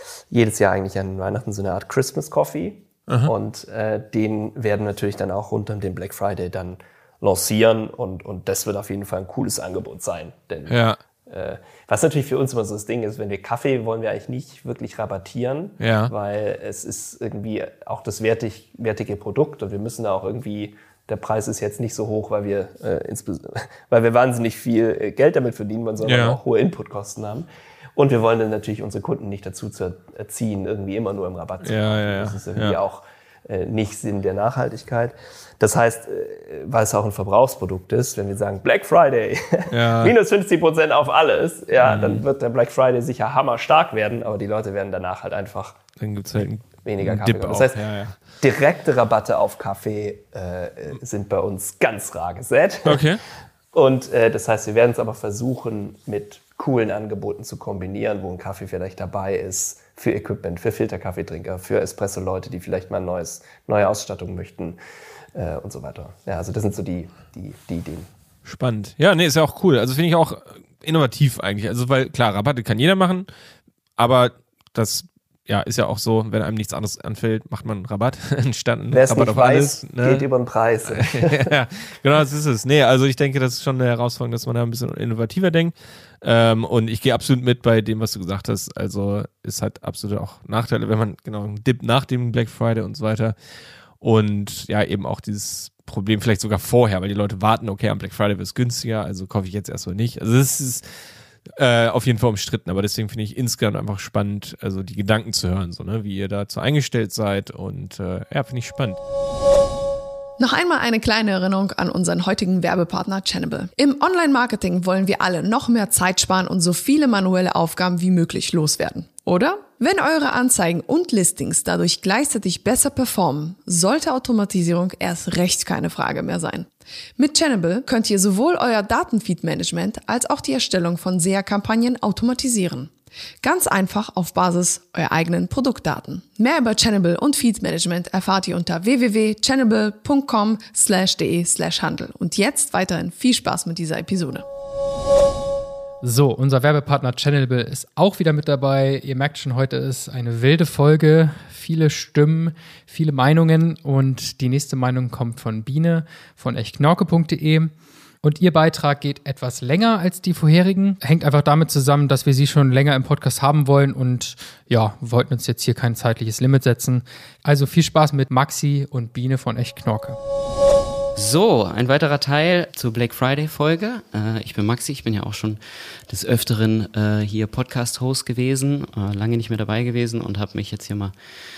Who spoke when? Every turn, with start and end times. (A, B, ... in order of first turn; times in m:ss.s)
0:00.3-0:45.8 A
0:03.1-0:03.3 B
0:10.7-0:11.0 B
0:15.8-0:16.1 B
0:26.0-0:26.4 B
0:31.6-0:32.8 B
0:39.7-0:40.1 B
0:41.8-0:42.2 B
0:46.0-0:48.3 B
0:46.8-0:53.1 A
0:52.8-0:53.2 B
0:53.7-1:04.8 A
1:05.3-1:08.1 A
1:08.4-1:13.3 B
1:14.0-1:20.3 B
1:18.9-1:21.6 A
1:20.9-1:40.9 B
1:41.4-1:49.0 B
1:50.4-2:24.4 C
2:26.0-2:50.2 D
2:51.2-3:01.1 E